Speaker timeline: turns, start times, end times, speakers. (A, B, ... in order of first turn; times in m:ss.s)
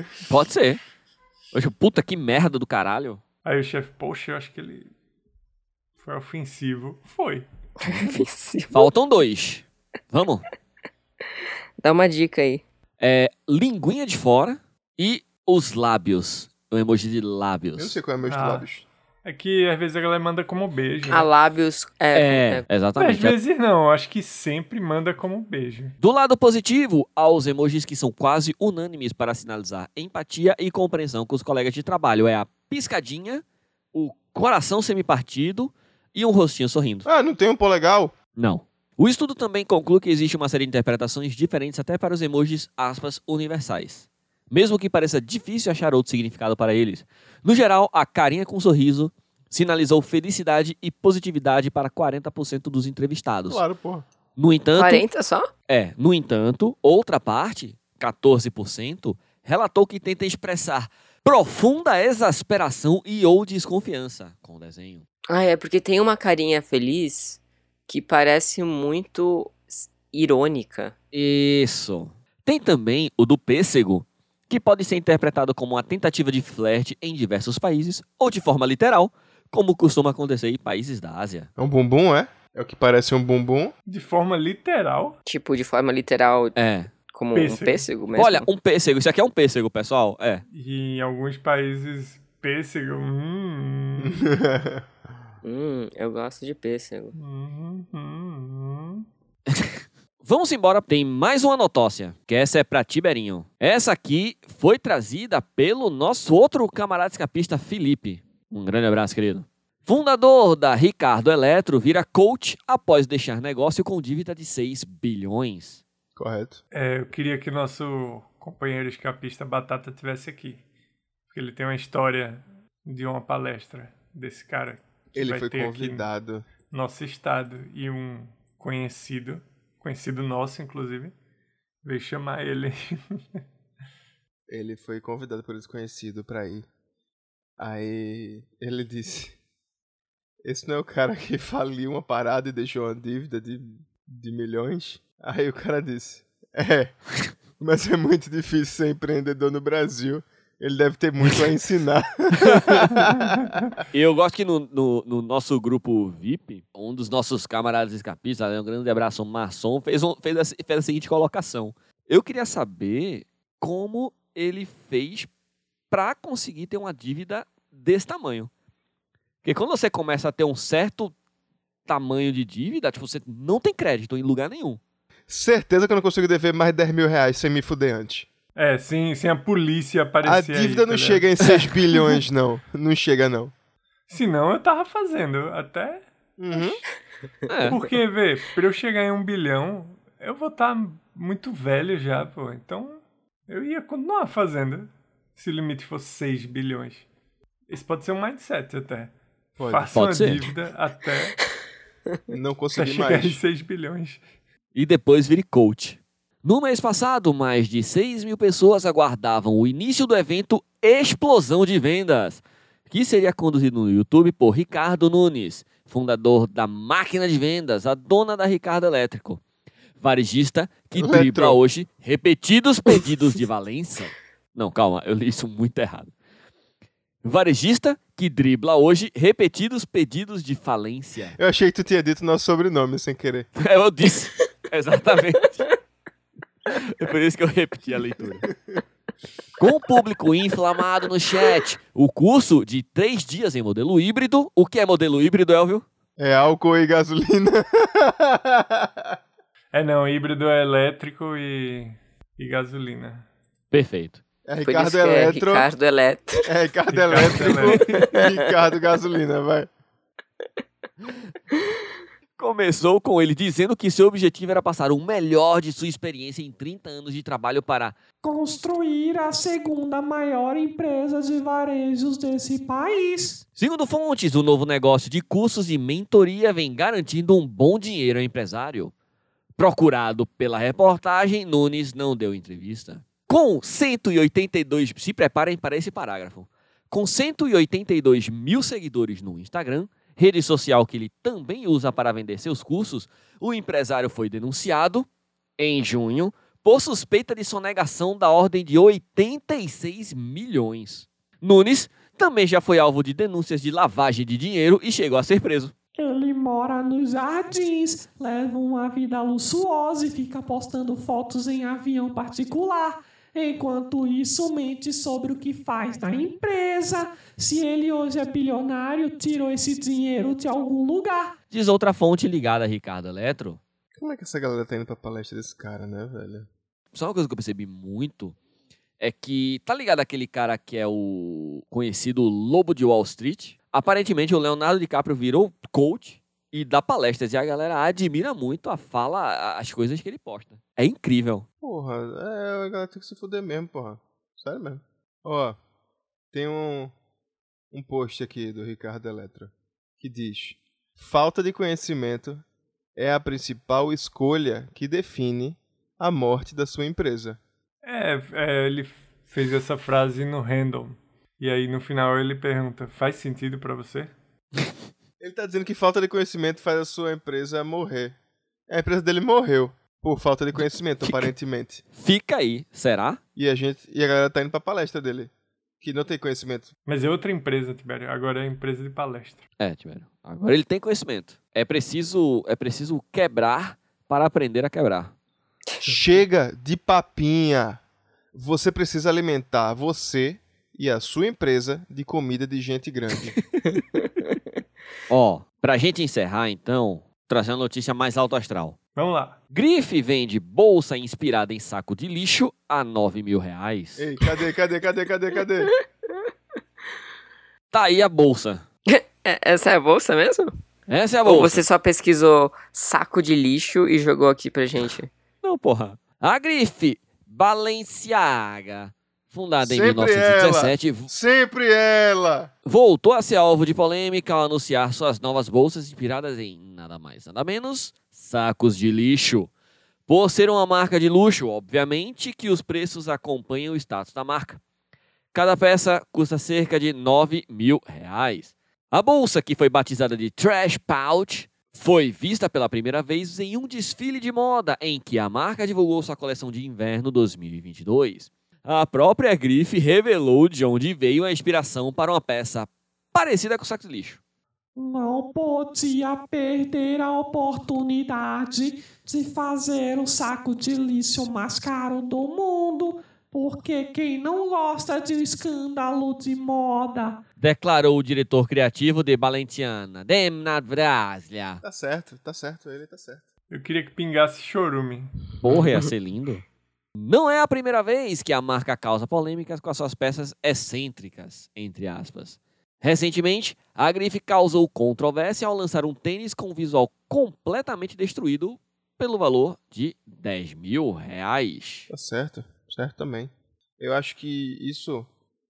0:00.3-0:00.8 A
0:01.5-0:03.2 A
0:03.4-0:04.9 B
0:06.0-0:07.4 B
0:07.8-0:08.9 C
0:08.7-0:10.4 A
0:11.8-0:12.6 C
0:13.0-0:18.0 A
0:17.8-0:18.8 D
0:18.2-0:18.7 B
0:19.2-0:21.3 B
0:21.1-0:22.6 C
0:22.1-0:23.3 A
0:23.0-0:25.9 B
0:26.0-0:33.4 A
0:33.9-0:37.1 A
0:37.0-0:38.1 D
0:38.4-0:53.6 A
0:53.5-0:54.0 D
0:54.4-0:55.0 A
0:54.8-0:55.5 C
0:55.7-1:05.0 A
1:05.3-1:10.9 C
1:11.1-1:21.5 A
1:21.6-1:23.7 D
1:23.9-1:25.2 B
1:25.2-1:26.5 C
1:26.6-1:26.9 A
1:27.1-1:28.5 C
1:27.3-1:27.8 B
1:28.2-1:30.4 A
1:30.5-1:34.3 B
1:34.0-1:34.8 D
1:35.4-1:37.1 C
1:37.1-1:39.1 B
1:39.5-1:55.8 A
1:56.2-1:56.6 D
1:56.7-2:00.6 B
2:01.3-2:06.1 B
2:05.1-2:06.4 D
2:06.7-2:11.1 B
2:11.8-2:13.4 B
2:14.5-2:16.7 D
2:17.6-2:19.4 D
2:20.4-2:26.9 D
2:27.6-2:33.7 D
2:32.4-2:32.9 A
2:33.9-2:45.3 A
2:45.9-2:48.5 A
2:49.4-2:51.1 A
2:51.8-2:54.8 A
2:55.3-2:58.3 D
2:58.6-3:01.3 B
3:00.2-3:03.5 D
3:04.1-3:06.8 B
3:06.4-3:06.8 D
3:07.5-3:07.8 A
3:07.6-3:17.0 B
3:17.7-3:19.1 B
3:19.6-3:19.9 D
3:19.6-3:21.4 B
3:19.9-3:20.4 A
3:22.3-3:23.4 D
3:22.7-3:24.2 B
3:24.7-3:39.4 A
3:40.0-3:46.1 A
3:40.9-3:41.6 D
3:47.2-3:51.4 A
3:51.3-3:53.5 D
3:53.6-3:55.7 A
3:56.7-3:58.5 A
3:59.6-4:05.8 A
4:06.2-4:09.2 D
4:09.7-4:13.2 B
4:13.7-4:14.2 A
4:14.4-4:15.7 D
4:14.6-4:16.5 C
4:16.4-4:19.7 D
4:16.9-4:17.8 B
4:18.1-4:18.4 C
4:22.4-4:28.0 A
4:28.2-4:33.4 E
4:33.4-4:38.9 A
4:39.6-5:05.7 A
5:06.0-5:21.4 E
5:21.5-5:23.6 A
5:23.9-5:26.5 D
5:26.9-5:28.4 A
5:29.0-5:41.4 A
5:41.6-5:45.6 D
5:46.3-5:46.9 D
5:47.7-5:52.4 D
5:53.0-5:57.4 D
5:57.8-6:04.1 B
6:05.2-6:11.8 D
6:11.0-6:11.3 A
6:11.9-6:13.2 A
6:13.4-6:16.7 D
6:16.8-6:19.4 B
6:19.6-6:25.1 A
6:25.8-6:27.8 D
6:28.3-6:33.4 D
6:33.7-6:34.3 C
6:35.1-6:38.8 A
6:38.9-6:39.4 B
6:39.5-6:44.1 A
6:44.0-6:45.7 D
6:47.7-6:48.6 A
6:48.9-6:50.5 C
6:50.9-6:51.6 A
6:51.2-6:55.1 C
6:55.4-7:01.1 A
6:59.6-7:02.5 D
7:02.6-7:09.5 A
7:10.1-7:14.6 A
7:15.3-7:34.2 A
7:34.8-7:47.2 E
7:47.4-7:51.6 A
7:51.6-7:53.2 D
7:53.5-7:55.2 B
7:55.4-7:56.4 A
7:57.0-8:11.9 A
8:11.9-8:15.1 D